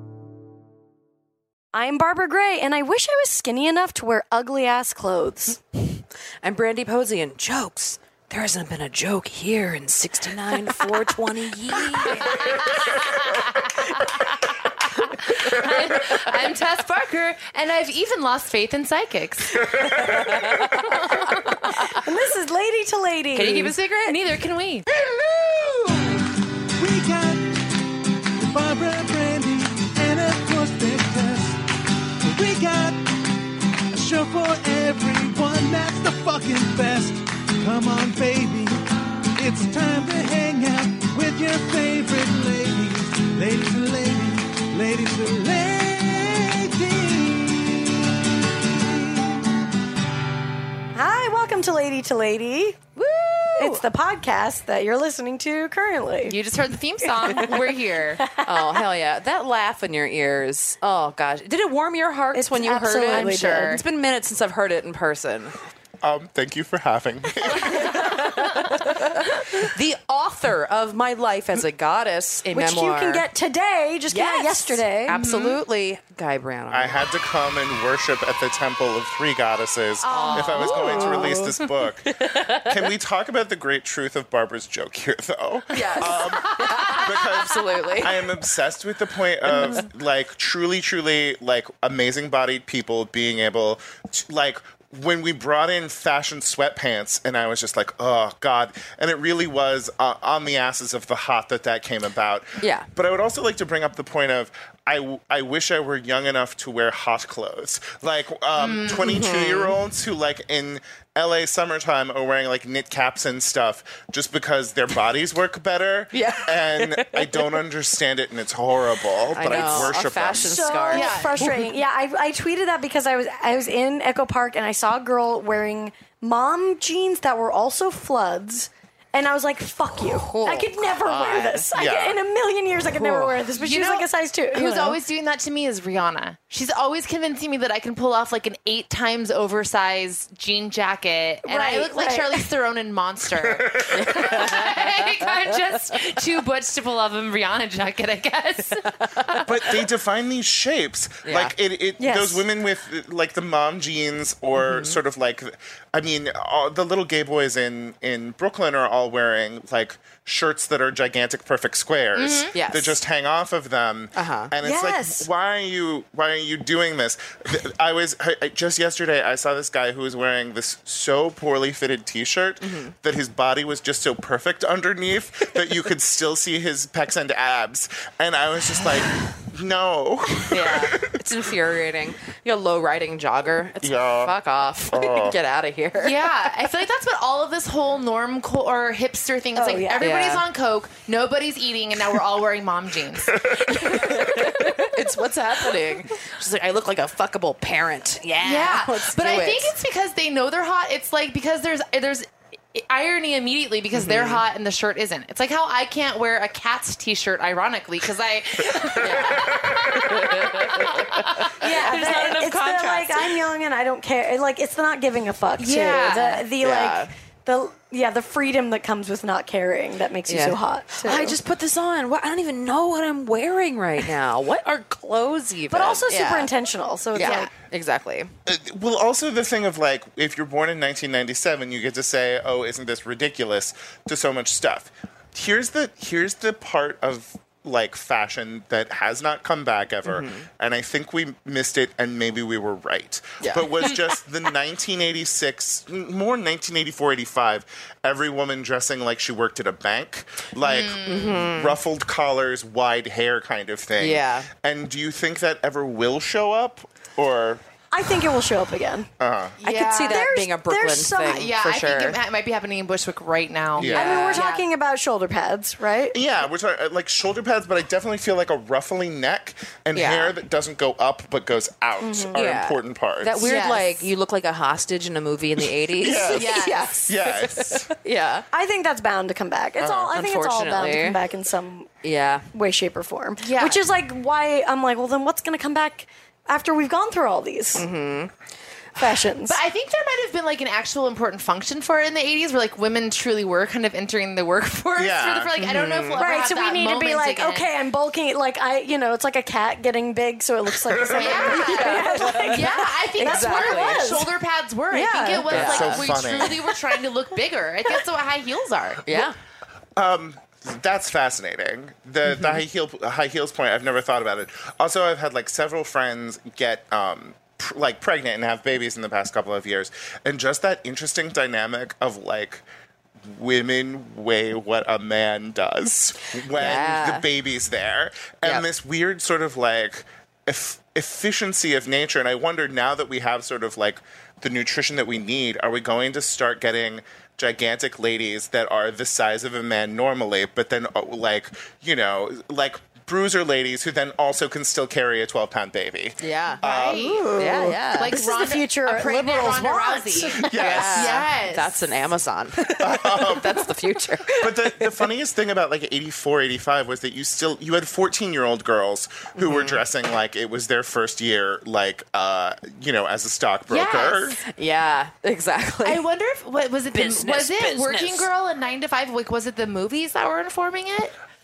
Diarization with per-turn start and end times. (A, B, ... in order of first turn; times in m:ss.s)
0:01.7-0:05.6 A
0:05.8-0:13.0 B
0:15.1-0:20.2 C
0:19.6-0:20.9 D
0:20.9-0:21.3 C
0:21.8-0:24.2 A
0:23.3-0:24.9 C
0:24.9-0:27.6 D
0:28.4-0:31.6 D
0:32.2-0:33.3 D
0:33.9-0:38.8 D
0:39.4-0:49.7 D
0:50.9-0:52.8 A
0:53.0-0:53.8 B
0:53.6-0:56.4 A
0:56.2-0:58.2 C
0:58.2-0:58.8 A
0:58.4-1:05.6 B
1:02.3-1:03.8 A
1:03.1-1:03.8 C
1:06.0-1:08.3 E
1:07.6-1:13.2 B
1:12.5-1:15.2 A
1:14.1-1:17.0 B
1:15.1-1:15.6 C
1:16.7-2:00.6 E
1:20.0-1:21.3 C
1:20.1-1:22.8 B
1:21.0-1:21.5 A
1:25.7-1:28.2 B
1:26.2-1:27.0 C
1:29.5-1:29.9 B
1:42.6-1:42.9 B
1:48.6-1:49.2 C
1:49.0-1:49.7 B
1:56.1-1:57.6 B
1:59.3-2:01.7 B
1:59.5-1:59.8 A
2:00.3-2:15.0 A
2:00.9-2:01.5 C
2:10.0-2:11.7 B
2:11.8-2:12.2 E
2:12.9-2:13.4 B
2:13.5-2:29.4 C
2:21.4-2:22.4 A
2:23.5-2:24.1 E
2:23.9-2:26.0 B
2:28.9-2:29.5 B
2:29.4-3:01.1 E
2:31.2-2:31.5 B
2:32.0-2:32.4 A
2:34.6-2:35.0 B
2:42.1-2:42.5 C
2:42.5-2:43.0 B
2:44.2-2:44.5 B
2:44.6-2:45.3 A
2:52.6-2:52.9 B
3:00.5-3:06.2 B
3:03.8-3:04.3 E
3:04.9-3:05.4 E
3:05.9-3:14.6 C
3:09.5-3:10.0 A
3:10.0-3:10.4 B
3:13.8-3:19.7 B
3:18.4-3:32.4 C
3:23.9-3:24.4 B
3:28.9-3:33.3 B
3:31.6-3:41.4 A
3:35.6-3:36.5 C
3:36.6-3:37.1 B
3:40.3-3:46.5 B
3:45.7-3:47.5 A
3:47.1-3:48.3 B
3:47.2-3:47.5 C
3:48.4-4:17.6 E
4:00.1-4:00.5 B
4:03.4-4:04.0 B
4:10.6-4:11.5 C
4:11.0-4:11.8 B
4:14.0-4:14.5 B
4:17.9-4:19.1 A
4:19.2-4:19.6 E
4:19.6-4:20.3 C
4:19.6-4:22.2 B
4:20.0-4:21.4 A
4:21.2-4:24.6 C
4:23.8-4:24.3 E
4:23.8-4:24.6 B
4:23.9-4:26.2 A
4:26.1-4:33.5 E
4:29.9-4:30.4 B
4:32.0-4:32.4 A
4:32.3-4:38.4 B
4:33.4-4:34.1 C
4:35.6-4:37.9 E
4:36.3-4:37.1 C
4:38.5-4:41.9 A
4:39.8-4:41.2 B
4:42.0-4:42.5 B
4:42.5-4:47.9 A
4:43.4-4:43.8 C
4:47.7-4:48.3 B
4:49.0-4:49.6 A
4:49.5-4:57.7 C
4:54.9-4:55.5 E
4:55.6-4:56.2 B
4:56.2-5:04.3 A
5:01.2-5:09.2 C
5:01.2-5:04.1 B
5:04.9-5:05.5 A
5:05.5-5:06.4 B
5:05.5-5:06.6 E
5:09.0-5:09.3 B
5:10.0-5:22.6 E
5:12.3-5:12.6 B
5:23.2-5:47.2 E
5:26.5-5:27.2 B
5:46.2-5:46.6 B
5:46.6-5:51.8 C
5:46.9-5:50.5 A
5:47.3-5:48.1 B
5:50.2-5:51.3 E
5:50.5-5:55.0 B
5:52.8-5:53.6 E
5:54.3-6:04.4 E
5:59.4-5:59.8 B
6:03.7-6:04.4 C
6:04.5-6:06.0 B
6:05.8-6:11.1 C
6:06.9-6:08.3 B